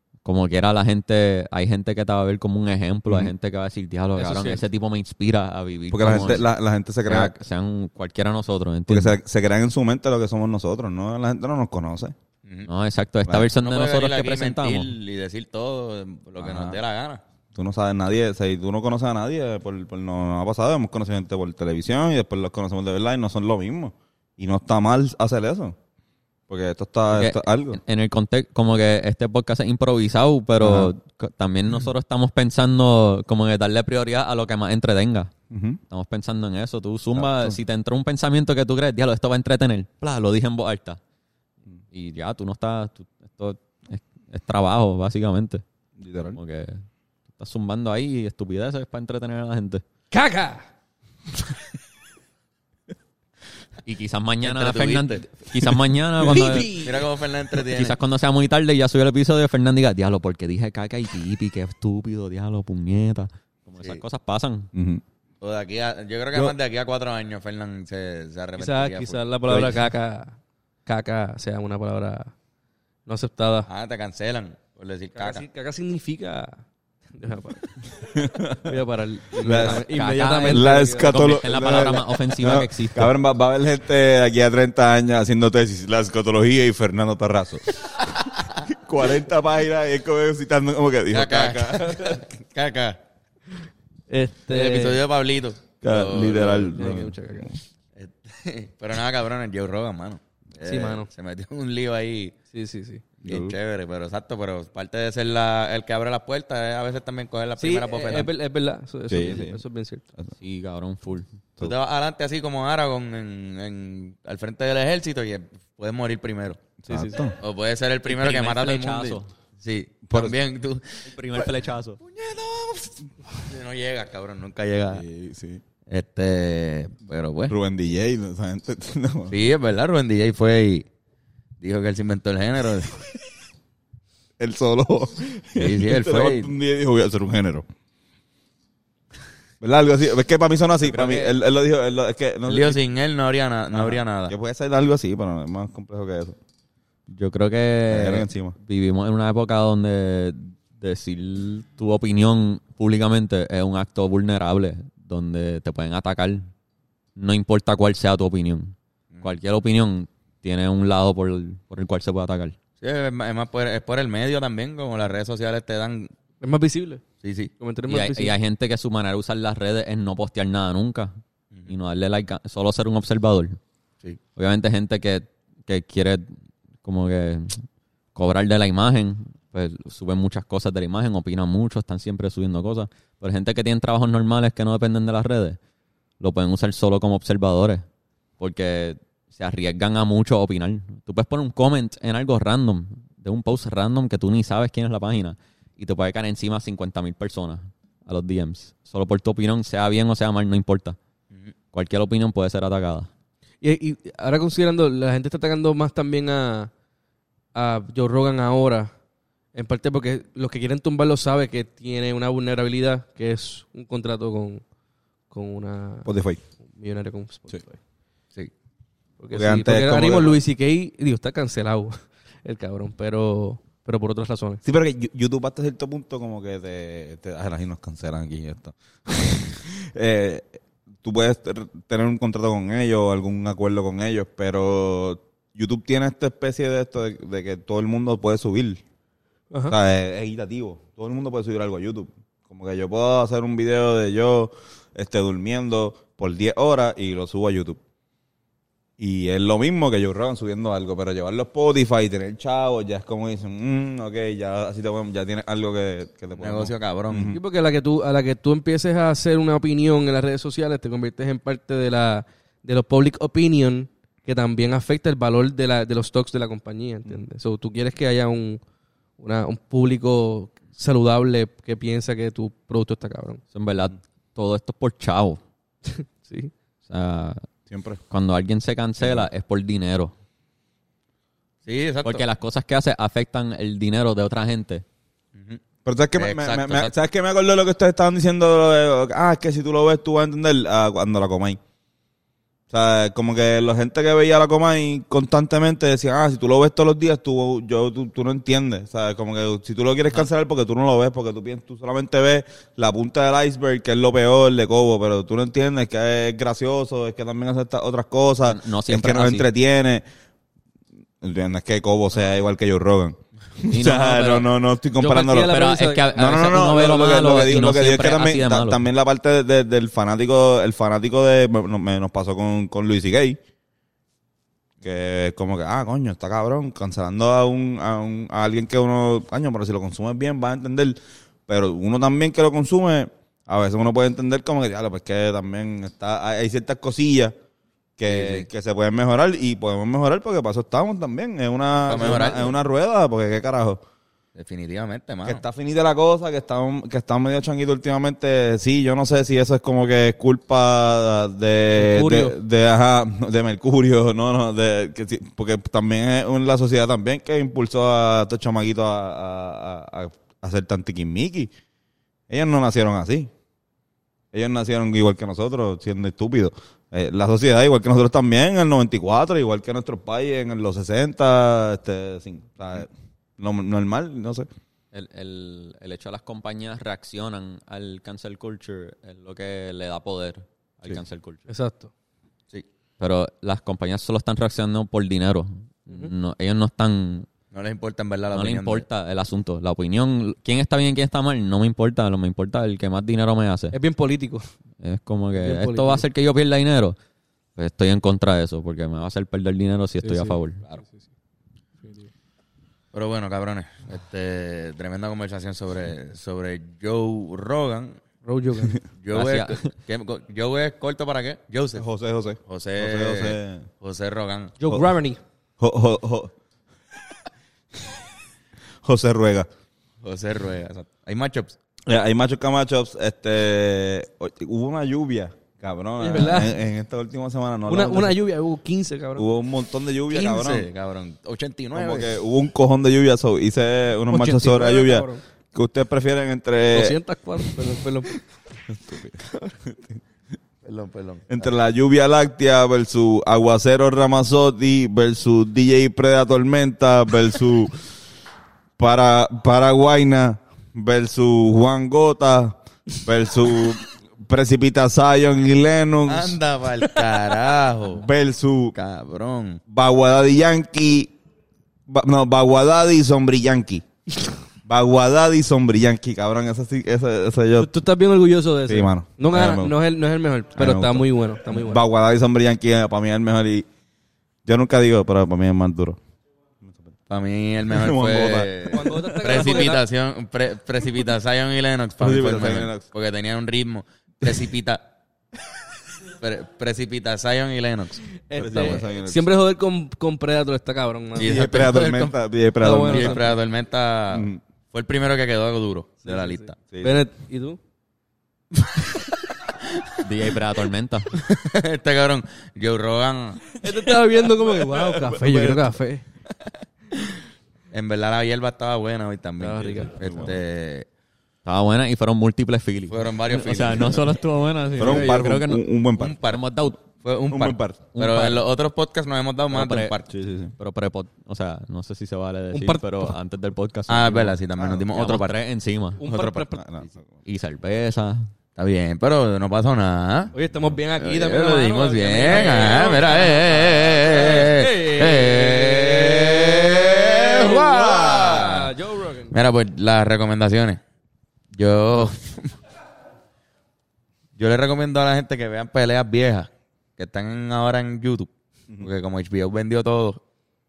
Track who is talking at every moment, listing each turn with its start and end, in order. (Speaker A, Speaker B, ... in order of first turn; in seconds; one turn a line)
Speaker A: 0.2-6.5
Speaker B: 3.1-3.3
Speaker C: 4.2-4.6
Speaker B: 5.9-7.3
Speaker A: 7.1-9.2
Speaker B: 8.9-12.1
Speaker A: 12.7-14.9
Speaker B: 13.2-13.5
Speaker C: 13.6-17.2
Speaker B: 16.4-16.8
Speaker B: 17.5-25.8
Speaker B: 26.5-27.8
Speaker A: 27.1-35.3
Speaker B: 30.6-30.9
Speaker B: 35.5-35.8
Speaker A: 35.9-41.0
Speaker B: 37.1-37.6
Speaker A: 41.9-45.6
Speaker B: 46.0-46.4
Speaker A: 46.3-46.8
Speaker A: 47.4-49.8
Speaker D: 50.1-50.6
Speaker A: 53.8-56.8
Speaker C: 54.4-55.4
Speaker D: 56.3-57.0
Speaker C: 56.3-58.0
Speaker A: 57.6-64.7
Speaker B: 64.7-65.0
Speaker C: 65.4-69.6
Speaker D: 68.6-72.3
Speaker D: 73.1-73.7
Speaker C: 73.7-75.4
Speaker D: 75.1-77.6
Speaker B: 78.0-78.8
Speaker D: 78.6-81.9
Speaker B: 79.4-79.8
Speaker A: 79.5-83.1
Speaker B: 80.5-87.7
Speaker C: 88.3-88.5
Speaker B: 88.5-92.2
Speaker C: 91.1-93.0
Speaker D: 94.1-95.0
Speaker C: 94.5-96.7
Speaker B: 95.8-97.6
Speaker D: 96.2-97.5
Speaker C: 98.0-102.3
Speaker D: 100.6-101.1
Speaker D: 102.5-103.0
Speaker C: 103.2-108.3
Speaker B: 103.2-103.5
Speaker D: 107.6-110.0
Speaker B: 109.1-109.6
Speaker A: 110.4-111.3
Speaker C: 111.6-116.6
Speaker B: 116.8-117.3
Speaker D: 116.9-117.2
Speaker C: 117.4-125.0
Speaker A: 118.1-119.3
Speaker B: 120.1-120.3
Speaker A: 121.0-122.0
Speaker B: 124.9-125.6
Speaker C: 125.9-127.5
Speaker B: 127.5-129.3
Speaker C: 129.3-130.9
Speaker C: 131.6-133.0
Speaker B: 134.4-137.7
Speaker C: 135.6-136.5
Speaker B: 139.6-142.8
Speaker A: 140.8-141.3
Speaker C: 142.5-144.3
Speaker B: 143.7-146.4
Speaker A: 147.1-156.5
Speaker B: 147.9-148.6
Speaker A: 157.2-162.6
Speaker C: 162.8-166.1
Speaker D: 166.4-167.0
Speaker C: 167.2-167.5
Speaker D: 167.6-168.3
Speaker A: 167.9-171.2
Speaker A: 171.7-173.6
Speaker A: 174.3-177.6
Speaker A: 178.1-185.6
Speaker A: 186.2-187.8
Speaker A: 188.4-201.0
Speaker A: 201.7-203.1
Speaker D: 203.6-206.7
Speaker D: 207.5-208.9
Speaker D: 209.5-214.6
Speaker D: 215.3-216.1
Speaker B: 216.1-216.4
Speaker D: 216.6-217.8
Speaker D: 219.2-224.6
Speaker B: 219.3-220.4
Speaker B: 224.6-230.5
Speaker B: 231.0-238.8
Speaker B: 239.7-247.8
Speaker B: 249.0-257.4
Speaker C: 256.4-257.3
Speaker D: 257.3-268.6
Speaker D: 269.2-273.4
Speaker A: 273.5-275.4
Speaker D: 275.9-276.5
Speaker A: 276.9-277.4
Speaker B: 277.7-278.0
Speaker A: 278.1-280.1
Speaker B: 279.0-279.3
Speaker C: 281.6-282.2
Speaker A: 282.0-284.8
Speaker B: 285.8-291.6
Speaker C: 286.1-286.9
Speaker B: 292.7-310.0
Speaker A: 308.4-309.4
Speaker B: 311.2-315.6
Speaker A: 313.7-314.5
Speaker D: 315.0-316.3
Speaker A: 315.4-318.8
Speaker B: 316.1-323.4
Speaker B: 324.8-330.9
Speaker B: 331.5-337.3
Speaker B: 338.0-343.8
Speaker C: 338.0-338.5
Speaker C: 341.9-342.6
Speaker C: 344.4-345.4
Speaker B: 345.2-361.5
Speaker D: 351.8-352.3
Speaker B: 362.3-363.3
Speaker B: 364.3-374.5
Speaker A: 374.9-381.4
Speaker D: 381.5-381.9
Speaker A: 383.0-387.3
Speaker C: 387.5-388.9
Speaker A: 388.3-393.8
Speaker D: 393.7-394.5
Speaker A: 394.8-397.0
Speaker D: 395.3-396.0
Speaker A: 397.6-400.6
Speaker D: 400.0-401.1
Speaker D: 401.8-402.1
Speaker C: 402.9-408.0
Speaker D: 408.2-408.8
Speaker C: 409.0-411.8
Speaker A: 409.1-409.7
Speaker B: 411.8-413.7
Speaker C: 412.5-414.5
Speaker D: 414.6-415.2
Speaker B: 415.6-416.3
Speaker B: 418.8-419.5
Speaker C: 420.0-421.6
Speaker B: 421.9-428.2
Speaker D: 426.0-426.5
Speaker D: 427.7-429.3
Speaker B: 429.1-430.7
Speaker C: 430.1-432.1
Speaker B: 431.7-436.9
Speaker D: 434.1-435.2
Speaker D: 436.7-438.2
Speaker B: 438.7-440.0
Speaker C: 440.6-441.5
Speaker B: 441.3-447.8
Speaker B: 448.8-456.4
Speaker C: 456.1-458.1
Speaker B: 458.0-458.7
Speaker C: 458.7-459.6
Speaker B: 459.7-461.1
Speaker B: 461.9-463.8
Speaker B: 464.6-467.7
Speaker D: 467.6-471.8
Speaker B: 468.7-469.7
Speaker B: 470.6-473.7
Speaker B: 474.4-476.0
Speaker C: 477.1-484.8
Speaker B: 477.7-479.6
Speaker D: 478.7-479.8
Speaker B: 482.0-482.9
Speaker C: 486.2-488.7
Speaker D: 488.2-491.3
Speaker B: 488.3-489.3
Speaker C: 491.1-492.1
Speaker B: 491.2-493.2
Speaker D: 492.6-493.4
Speaker C: 492.8-496.6
Speaker B: 494.1-494.4
Speaker D: 496.0-497.6
Speaker B: 496.7-497.0
Speaker C: 499.5-500.0
Speaker A: 500.0-501.2
Speaker C: 501.1-503.6
Speaker D: 503.6-506.0
Speaker B: 504.4-505.7
Speaker C: 507.7-510.9
Speaker D: 509.4-509.9
Speaker B: 510.0-510.4
Speaker A: 511.4-515.6
Speaker C: 512.9-514.2
Speaker B: 514.8-516.2
Speaker C: 514.8-515.1
Speaker C: 516.0-520.1
Speaker A: 516.2-516.8
Speaker B: 517.3-517.8
Speaker A: 517.9-518.5
Speaker A: 519.5-519.9
Speaker B: 520.1-520.5
Speaker A: 520.6-524.4
Speaker D: 522.5-523.2
Speaker C: 523.9-525.4
Speaker B: 524.6-524.8
Speaker A: 524.9-526.0
Speaker C: 526.0-526.6
Speaker D: 526.0-526.6
Speaker B: 526.5-527.2
Speaker A: 527.2-528.3
Speaker C: 528.5-530.3
Speaker D: 530.3-539.3
Speaker C: 531.0-538.7
Speaker B: 532.6-534.0
Speaker C: 539.3-540.8
Speaker C: 541.5-542.5
Speaker C: 544.4-550.2